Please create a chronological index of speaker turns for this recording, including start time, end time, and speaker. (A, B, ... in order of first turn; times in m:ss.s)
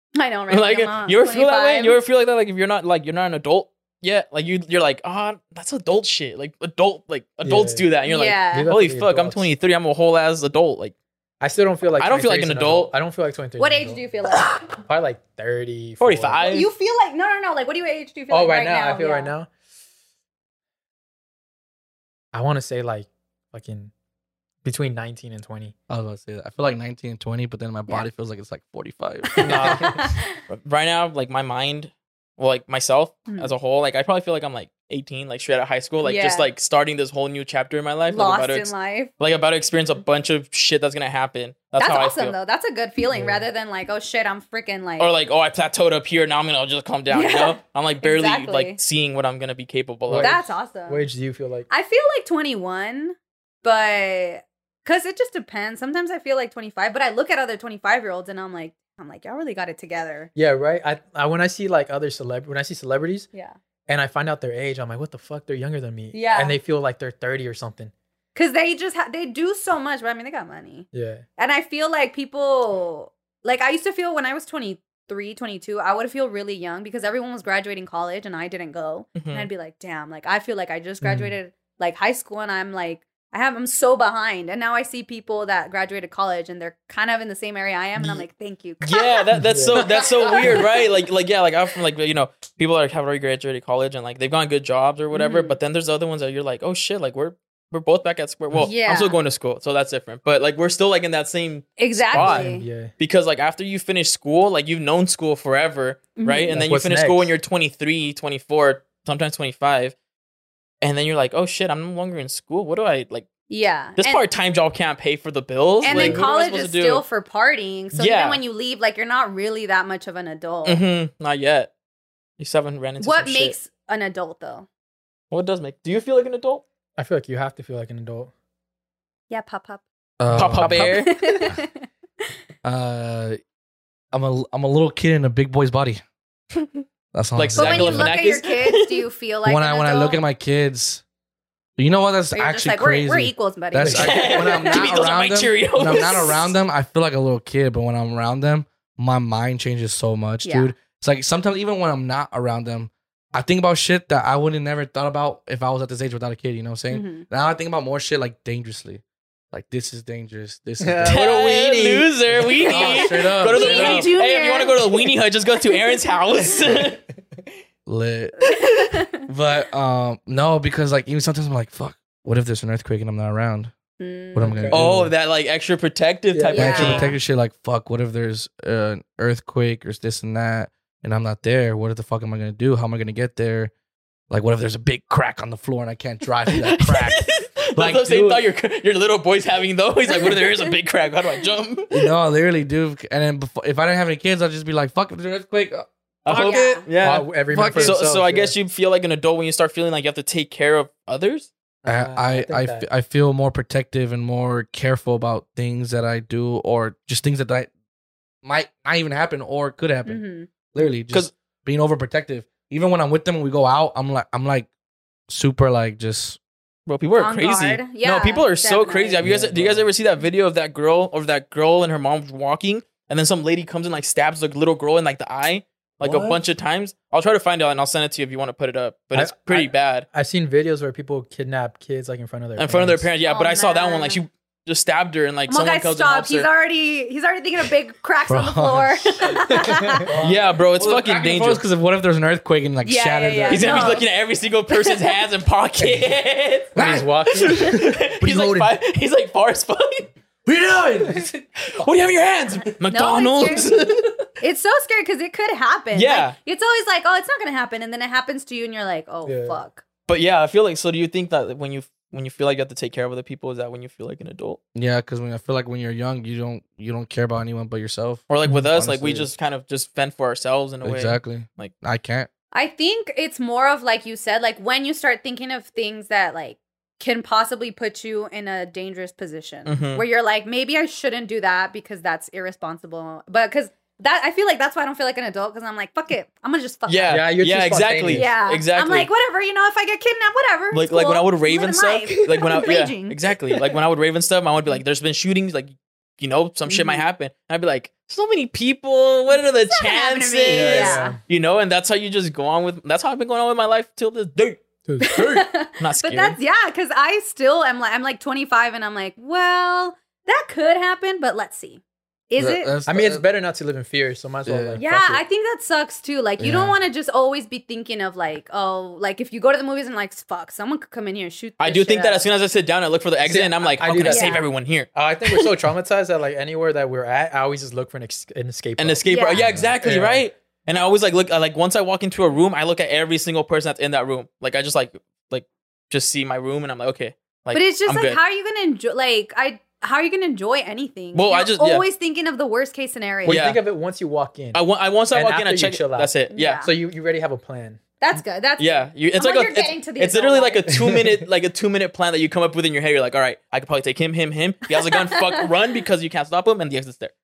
0:00.1-0:02.0 A
0:00.5-0:10.9 B
0:07.4-0:07.9 C
0:08.0-0:08.7 A
0:08.5-0:09.5 C
0:11.4-0:14.0 C
0:12.0-0:12.9 B
0:13.6-0:14.7 A
0:14.7-0:16.5 C
0:16.0-0:16.7 B
0:16.4-0:19.3 A
0:18.3-0:19.5 C
0:22.3-0:23.9 C
0:24.6-0:25.7 C
0:25.9-0:29.8 D
0:29.4-0:29.9 B
0:29.4-0:30.0 C
0:29.4-0:30.2 A
0:30.4-0:42.4 B
0:36.0-0:36.5 A
0:38.1-0:39.1 A
0:41.8-0:45.1 A
0:43.1-0:43.5 C
0:45.0-0:50.4 B
0:47.1-0:48.8 A
0:50.1-0:51.7 C
0:50.2-0:51.0 A
0:51.7-1:00.3 A
1:00.3-1:03.3 C
1:03.9-1:07.9 C
1:06.1-1:06.6 A
1:08.3-1:10.9 A
1:10.9-1:11.2 C
1:11.4-1:29.2 A
1:19.2-1:19.5 B
1:21.0-1:21.3 C
1:28.0-1:28.2 C
1:28.8-1:42.4 B
1:29.3-1:30.6 C
1:29.7-1:30.6 A
1:35.1-1:35.6 A
1:38.6-1:39.1 A
1:41.8-1:42.7 A
1:42.1-1:42.9 C
1:43.0-1:49.9 B
1:46.2-1:46.5 A
1:46.5-1:47.3 C
1:50.8-1:53.3 B
1:53.5-1:54.2 A
1:54.0-1:57.0 B
1:55.8-2:00.8 A
1:55.8-1:56.3 C
1:57.9-1:58.4 B
2:00.6-2:01.7 B
2:02.4-2:03.5 B
2:03.0-2:04.7 A
2:05.3-2:06.6 B
2:07.0-2:08.3 C
2:09.3-2:09.8 A
2:10.2-2:11.0 D
2:10.3-2:11.4 B
2:10.4-2:11.0 C
2:10.9-2:11.9 A
2:12.6-2:13.4 D
2:14.1-2:16.0 D
2:17.1-2:18.1 D
2:17.4-2:19.0 B
2:17.6-2:20.2 A
2:19.4-2:21.0 D
2:21.8-2:41.2 D
2:22.3-2:24.8 A
2:23.9-2:26.5 B
2:30.4-2:30.7 A
2:36.9-2:37.2 A
2:40.8-2:42.1 C
2:41.1-2:47.0 B
2:42.7-2:44.1 D
2:42.8-2:45.1 A
2:47.8-2:48.4 D
2:48.4-2:49.2 A
2:49.3-2:53.7 D
2:54.0-2:54.7 A
2:54.3-2:55.1 D
2:54.4-2:54.8 C
2:54.7-2:57.1 B
2:56.3-2:57.0 C
2:56.5-2:57.2 A
2:56.6-3:03.7 D
3:04.3-3:07.2 D
3:06.8-3:12.1 B
3:07.8-3:08.4 D
3:10.1-3:10.5 A
3:11.9-3:16.5 D
3:16.2-3:21.5 B
3:16.3-3:18.5 C
3:16.3-3:16.8 A
3:17.5-3:18.0 D
3:21.8-3:22.8 C
3:21.8-3:27.7 D
3:28.4-3:34.7 D
3:30.0-3:30.5 A
3:35.3-3:36.4 D
3:36.9-3:50.0 B
3:37.2-3:39.2 A
3:39.2-3:39.8 D
3:46.0-3:46.4 D
3:49.1-3:53.1 C
3:52.6-3:56.5 B
3:53.2-3:54.2 A
3:55.5-4:00.0 A
3:58.3-3:59.3 D
3:59.5-4:00.1 C
4:00.1-4:04.0 D
4:00.2-4:01.6 B
4:02.8-4:04.0 A
4:03.5-4:10.1 B
4:06.7-4:07.1 D
4:06.7-4:08.7 C
4:10.4-4:11.8 D
4:11.7-4:14.3 B
4:12.9-4:13.7 A
4:14.4-4:19.8 A
4:15.9-4:16.4 B
4:19.2-4:19.6 C
4:20.1-4:24.6 B
4:24.7-4:29.3 D
4:28.3-4:31.7 B
4:30.8-4:32.3 D
4:32.5-4:47.2 A
4:39.6-4:40.0 B
4:46.9-4:49.1 B
4:47.1-4:48.3 C
4:48.1-4:53.2 A
4:50.7-5:06.4 B
4:56.7-4:57.0 A
4:59.3-5:01.2 A
5:00.5-5:01.2 C
5:04.8-5:05.2 C
5:05.0-5:12.7 A
5:12.4-5:13.2 D
5:12.8-5:15.2 C
5:14.4-5:14.8 D
5:14.8-5:22.2 A
5:16.4-5:16.7 D
5:21.6-5:25.5 B
5:23.3-5:30.2 C
5:24.1-5:24.4 A
5:28.8-5:38.2 B
5:29.0-5:29.4 A
5:37.5-5:43.4 A
5:41.1-5:41.8 B
5:43.2-5:47.8 C
5:43.2-5:43.6 B
5:44.5-5:46.6 B
5:46.3-5:46.7 A
5:48.0-5:50.8 A
5:48.6-5:57.1 B
5:50.7-5:51.1 C
5:54.7-5:55.4 A